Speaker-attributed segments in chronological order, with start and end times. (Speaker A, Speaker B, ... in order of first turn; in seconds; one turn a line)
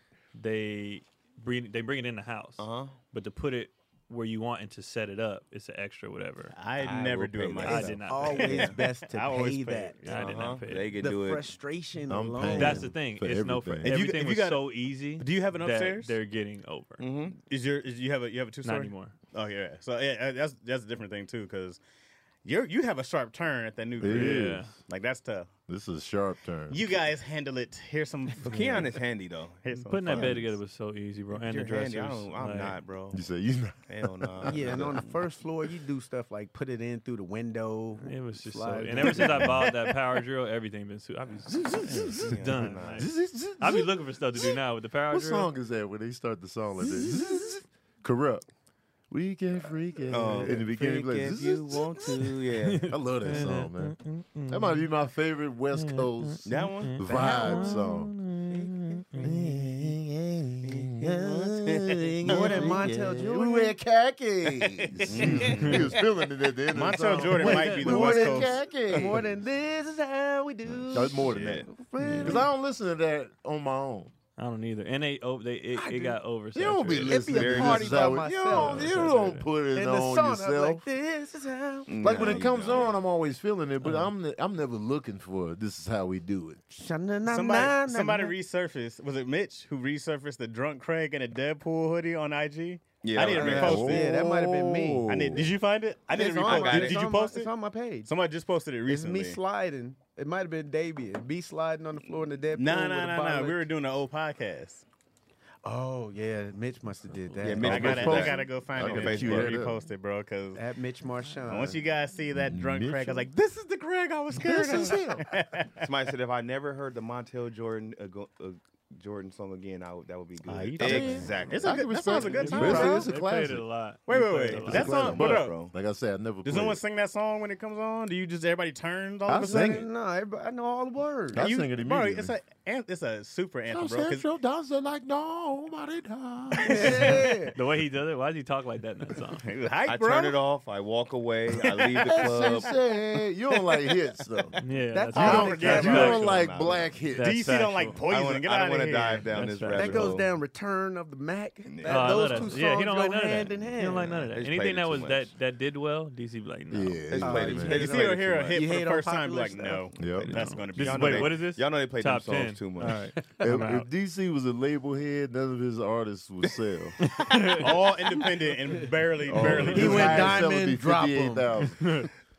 Speaker A: 0.3-6.6
Speaker B: 2.6-3.0
Speaker C: 6.5-10.5
Speaker B: 6.8-8.8
Speaker A: 7.6-8.7
Speaker D: 8.0-9.9
Speaker A: 10.1-11.0
Speaker B: 10.1-11.5
Speaker D: 11.0-12.9
Speaker E: 12.1-13.9
Speaker A: 12.5-17.1
Speaker C: 13.8-16.1
Speaker B: 17.0-17.4
Speaker C: 17.5-21.8
Speaker A: 18.6-19.1
Speaker C: 22.4-25.5
Speaker E: 24.0-24.7
Speaker A: 24.1-24.7
Speaker E: 25.7-26.9
Speaker C: 26.7-29.0
Speaker B: 28.4-30.6
Speaker C: 29.6-30.3
Speaker A: 29.9-32.8
Speaker B: 31.3-33.2
Speaker E: 33.1-35.0
Speaker B: 33.9-35.2
Speaker D: 34.5-39.6
Speaker A: 38.0-45.5
Speaker E: 39.2-39.6
Speaker E: 41.5-42.4
Speaker B: 41.9-43.1
Speaker E: 42.9-44.6
Speaker E: 45.1-48.5
Speaker E: 49.1-52.3
Speaker B: 50.1-53.0
Speaker A: 52.6-54.9
Speaker E: 52.9-58.2
Speaker A: 55.7-59.1
Speaker B: 56.5-57.0
Speaker D: 57.0-57.8
Speaker B: 58.5-59.9
Speaker E: 59.1-69.3
Speaker B: 60.7-62.8
Speaker D: 62.3-63.8
Speaker C: 65.0-65.8
Speaker B: 65.1-65.6
Speaker A: 65.3-65.9
Speaker C: 66.7-68.6
Speaker D: 67.4-72.5
Speaker E: 70.8-71.7
Speaker B: 71.2-71.7
Speaker A: 72.0-72.3
Speaker E: 72.2-74.1
Speaker A: 74.4-77.3
Speaker D: 75.7-76.2
Speaker E: 76.5-80.8
Speaker D: 77.0-79.0
Speaker B: 77.2-78.2
Speaker A: 78.5-79.5
Speaker D: 79.7-82.5
Speaker B: 81.9-83.0
Speaker E: 82.0-86.6
Speaker A: 83.8-84.1
Speaker D: 86.7-88.3
Speaker C: 87.3-94.1
Speaker B: 93.0-93.9
Speaker D: 93.3-95.0
Speaker E: 93.4-95.5
Speaker C: 95.1-97.5
Speaker D: 96.2-98.1
Speaker B: 96.5-97.0
Speaker C: 98.1-99.4
Speaker D: 98.9-103.7
Speaker C: 102.5-104.8
Speaker D: 105.6-108.0
Speaker B: 107.4-109.6
Speaker C: 107.6-110.6
Speaker E: 107.6-109.8
Speaker D: 110.5-111.8
Speaker C: 111.5-115.9
Speaker E: 112.3-113.3
Speaker E: 114.4-115.3
Speaker B: 115.8-123.0
Speaker C: 120.5-123.1
Speaker E: 120.8-123.7
Speaker A: 122.2-125.2
Speaker D: 122.7-123.0
Speaker C: 124.1-125.6
Speaker E: 124.6-126.8
Speaker B: 124.7-125.7
Speaker C: 126.4-129.9
Speaker E: 129.3-129.9
Speaker D: 129.4-131.5
Speaker E: 131.3-132.3
Speaker C: 131.4-134.3
Speaker E: 133.7-137.2
Speaker D: 136.6-137.6
Speaker C: 136.6-137.1
Speaker A: 137.1-139.5
Speaker C: 139.4-140.4
Speaker B: 139.9-142.7
Speaker E: 142.0-144.6
Speaker A: 144.6-146.3
Speaker D: 144.9-146.1
Speaker E: 145.1-147.4
Speaker C: 145.2-146.3
Speaker B: 145.6-147.0
Speaker A: 147.2-148.0
Speaker C: 147.2-149.3
Speaker B: 148.1-150.3
Speaker A: 149.3-150.1
Speaker D: 149.7-154.3
Speaker B: 151.7-152.6
Speaker A: 151.8-157.1
Speaker B: 154.3-155.3
Speaker E: 156.7-158.6
Speaker B: 157.1-158.3
Speaker D: 157.2-159.9
Speaker C: 157.6-161.4
Speaker B: 159.9-163.1
Speaker E: 160.0-160.3
Speaker A: 160.3-163.9
Speaker E: 163.4-167.1
Speaker A: 167.0-167.7
Speaker C: 167.4-170.4
Speaker E: 169.3-172.1
Speaker D: 169.7-171.6
Speaker A: 171.8-172.1